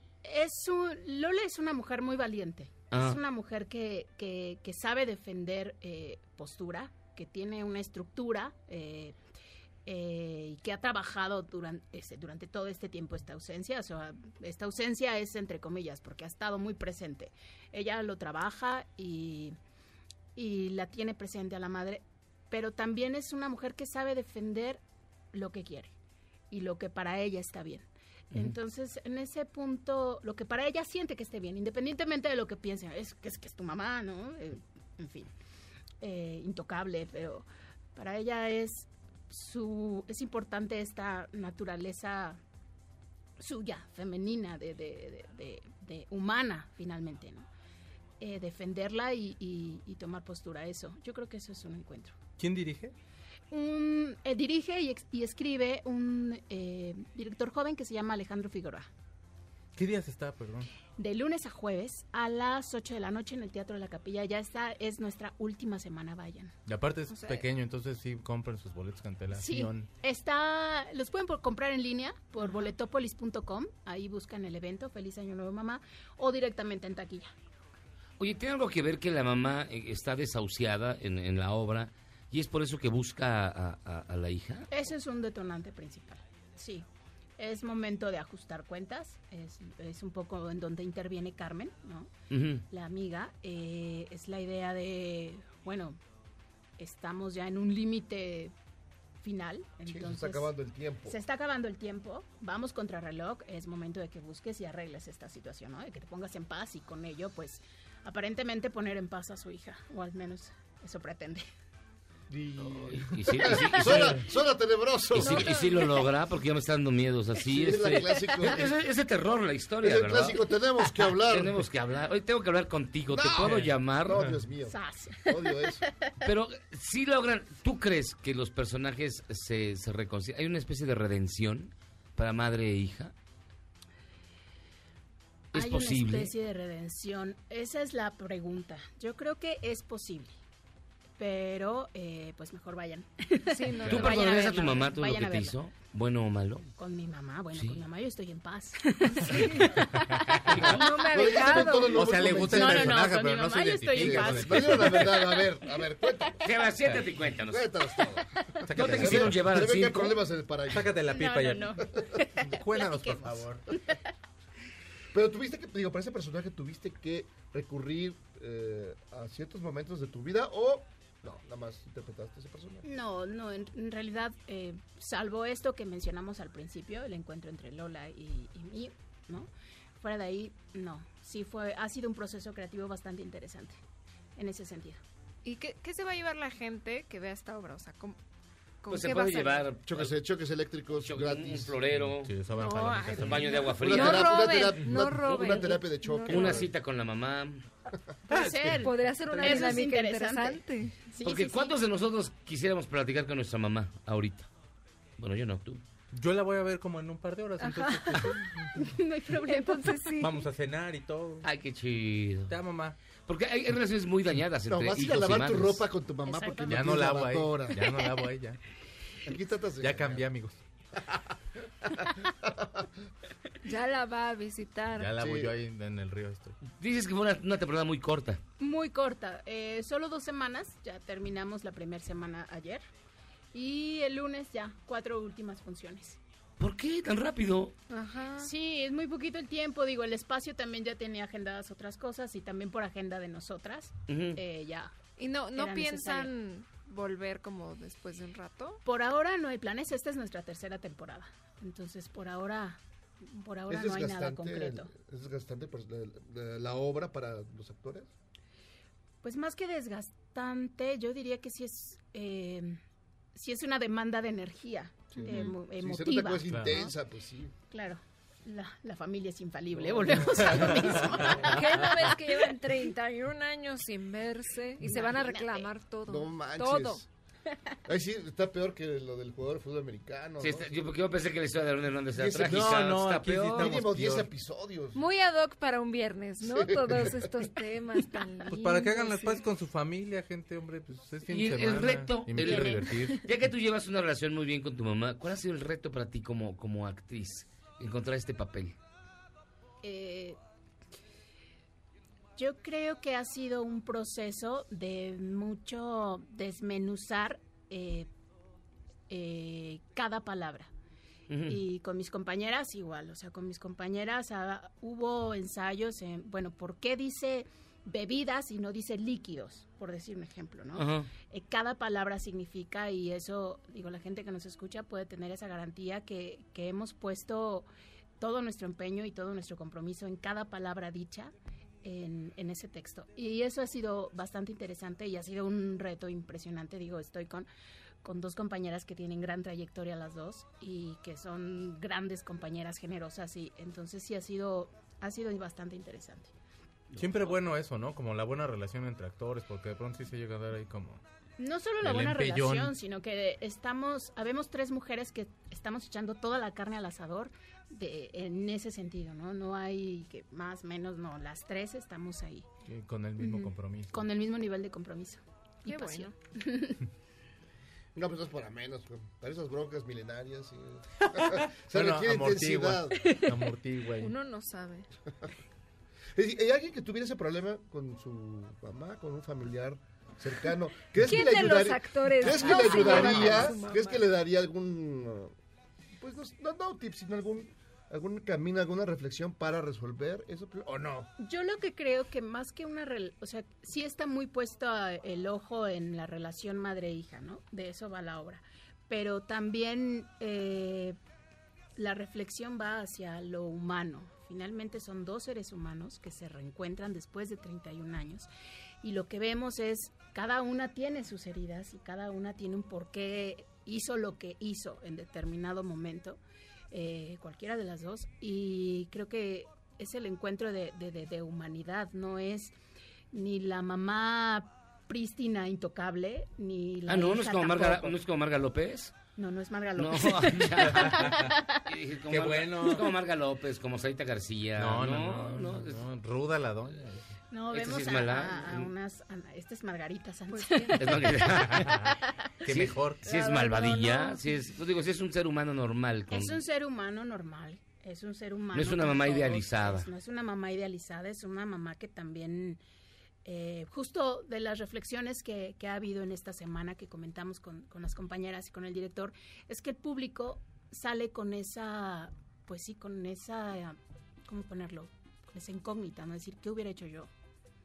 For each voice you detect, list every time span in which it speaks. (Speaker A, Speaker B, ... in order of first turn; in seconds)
Speaker A: 0.2-9.2, 9.9-19.6, 20.4-24.8, 25.3-25.9, 26.5-35.3, 36.0-42.4, 43.4-47.5, 48.2-52.2, 53.5-58.9, 61.0-66.5, 69.3-77.3, 84.7-86.9, 87.4-92.1, 92.7-96.0, 96.8-98.5, 99.2-100.5, 101.1-111.5, 115.2-116.1, 124.7-126.1, 135.5-140.3, 141.2-145.6, 146.8-151.6, 152.3-155.4, 161.1-163.4, 172.8-179.5, 180.0-183.8, 184.4-185.0, 198.3-201.7, 208.8-210.0, 216.3-217.0, 228.6-232.8, 233.5-236.2, 238.4-244.9, 245.5-246.3, 248.8-254.9, 259.2-262.8, 263.4-266.6, 267.7-271.6, 274.8-275.7, 299.8-300.4, 302.4-308.1, 309.1-310.7, 311.5-327.7, 328.2-337.5, 338.0-346.3, 351.4-362.5, 363.2-366.8, 382.4-383.5, 391.2-401.0, 401.8-408.3, 408.8-416.2, 416.7-422.5, 423.1-428.0, 429.2-431.6, 437.3-441.2, 443.3-444.1, 446.1-452.6, 453.2-467.1
Speaker B: 2.9-3.2, 78.2-84.7, 92.3-92.7, 112.8-114.2, 115.1-124.2, 126.2-133.1, 135.5-136.3, 143.9-146.7, 147.5-147.8, 156.4-157.7, 158.7-160.2, 188.9-190.2, 191.0-192.3, 193.2-194.5, 195.3-195.7, 196.3-197.7, 201.2-204.5, 205.2-205.8, 211.4-212.5, 213.3-215.8, 226.8-228.4, 236.6-237.7, 244.1-244.4, 280.4-283.7, 291.3-298.8, 311.3-311.6, 320.8-321.1, 426.9-428.9, 429.8-435.8, 437.5-438.7, 440.8-441.8, 442.5-446.4, 448.5-449.9
Speaker C: 52.4-52.9, 59.8-60.7, 66.7-69.9, 150.3-150.5, 151.9-155.2, 158.7-159.4, 160.7-161.8, 162.5-163.6, 191.9-193.7, 198.3-198.8, 206.1-208.7, 210.2-211.4, 212.5-212.9, 216.7-218.6, 219.8-220.6, 225.0-226.6, 266.5-266.9, 270.4-271.4, 282.4-284.3, 288.5-293.2, 347.0-351.0, 351.8-352.7, 362.7-364.0, 371.1-374.1, 430.6-431.3, 432.1-432.9, 434.6-437.1, 441.4-441.9, 442.4-443.1
Speaker D: 99.9-101.2, 112.3-115.9, 117.5-118.7, 119.8-121.6, 123.1-125.8, 150.6-153.2, 153.9-156.7, 157.5-161.2, 165.1-172.9, 189.9-191.7, 193.8-196.7, 214.7-217.8, 219.3-220.3, 221.9-222.8, 225.2-225.5, 253.7-258.1, 265.1-267.5, 269.8-271.6, 276.1-277.1, 277.9-280.9, 282.1-282.9, 283.5-285.0, 286.4-287.3, 347.1-347.4, 367.9-373.1, 376.1-385.3, 386.0-391.1
Speaker E: 143.5-144.7, 149.1-149.7, 150.7-152.0, 185.4-188.2, 188.8-189.7, 192.6-196.7, 198.8-201.0, 207.6-208.4, 209.5-210.4, 223.7-225.2, 237.9-238.5, 245.2-248.8, 271.4-277.0, 284.9-289.4, 292.5-293.1, 365.7-366.1, 374.0-374.9, 381.0-384.0, 440.3-440.8